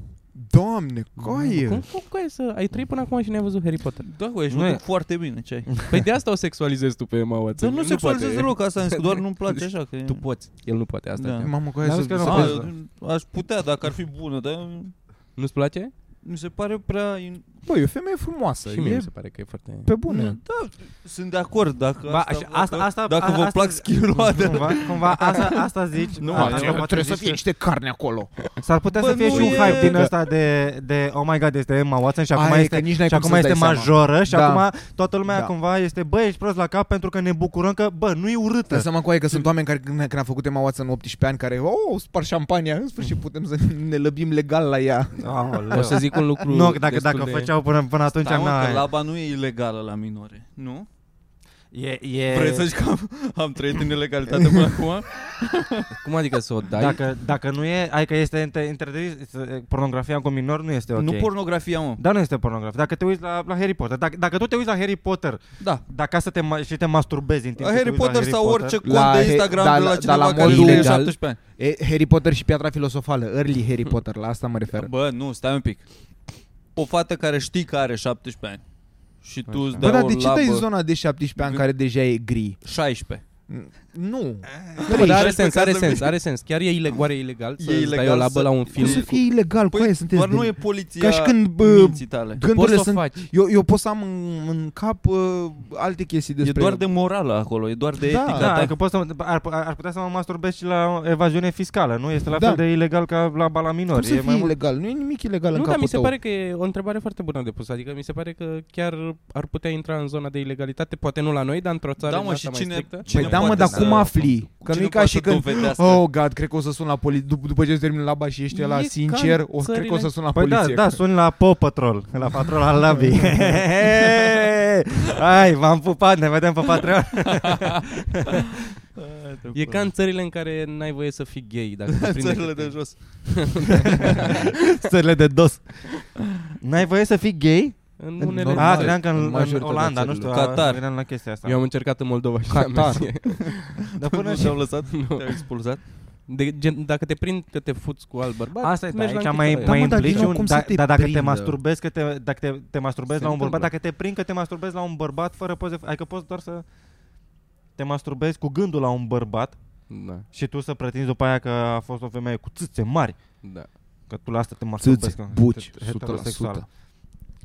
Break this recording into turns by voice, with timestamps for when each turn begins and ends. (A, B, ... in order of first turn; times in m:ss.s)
0:00.4-0:01.8 A
0:01.2-0:04.1 B
0:04.0-0:05.7 C
0:04.5-0:04.8 D
0:05.7-0:06.0 D
0:05.9-0:11.6 B
0:07.6-0:11.6 C
0:11.4-0:12.7 A
0:11.8-0:12.7 D
0:12.2-0:15.0 C
0:15.4-0:15.9 B
0:16.2-0:17.5 C
0:17.7-0:20.4 A
0:18.7-0:19.9 B
0:20.1-0:27.1 C
0:22.1-0:27.4 D
0:26.3-0:28.4 A
0:28.6-0:39.4 D
0:29.0-0:30.1 C
0:29.3-0:29.8 B
0:29.4-0:30.1 A
0:32.3-0:35.5 A
0:38.7-0:46.0 A
0:45.2-0:48.9 D
0:45.7-0:47.5 B
0:48.1-0:50.9 C
0:51.7-0:52.7 D
0:52.3-0:55.9 C
0:56.0-0:57.0 B
0:56.7-1:01.3 D
1:01.0-1:02.0 C
1:02.0-1:08.8 D
1:05.6-1:05.8 C
1:07.6-1:11.4 C
1:08.8-1:14.9 A
1:10.4-1:11.1 B
1:14.7-1:15.9 C
1:16.8-1:18.6 C
1:19.2-1:20.7 C
1:19.8-1:22.6 A
1:21.4-1:21.6 C
1:22.6-1:23.2 C
1:23.5-1:25.3 A
1:24.5-1:24.9 D
1:24.8-1:26.1 C
1:24.8-1:29.2 B
1:27.6-1:29.1 C
1:28.8-1:36.8 A
1:29.7-1:32.4 C
1:32.4-1:33.3 B
1:36.4-1:38.8 C
1:38.0-1:38.5 A
1:38.3-1:44.6 D
1:42.4-1:42.6 A
1:43.9-1:46.1 A
1:45.5-1:53.8 B
1:52.0-1:56.0 C
1:53.1-1:54.1 D
1:53.1-2:01.0 A
1:58.5-2:00.2 B
2:00.3-2:08.4 D
2:07.2-2:07.8 C
2:09.0-2:09.8 C
2:09.5-2:14.4 B
2:11.9-2:13.5 C
2:14.3-2:15.9 D
2:16.6-2:21.7 D
2:18.0-2:20.4 B
2:18.2-2:20.3 A
2:20.3-2:20.9 C
2:21.4-2:23.9 B
2:22.7-2:23.0 D
2:24.0-2:24.8 D
2:24.1-2:25.9 C
2:24.8-2:25.7 B
2:26.3-2:30.5 B
2:28.6-2:36.6 D
2:29.6-2:31.4 A
2:31.2-2:31.6 B
2:33.1-2:33.8 B
2:37.8-2:46.6 D
2:39.9-2:40.3 B
2:43.4-2:43.8 B
2:44.8-2:46.6 A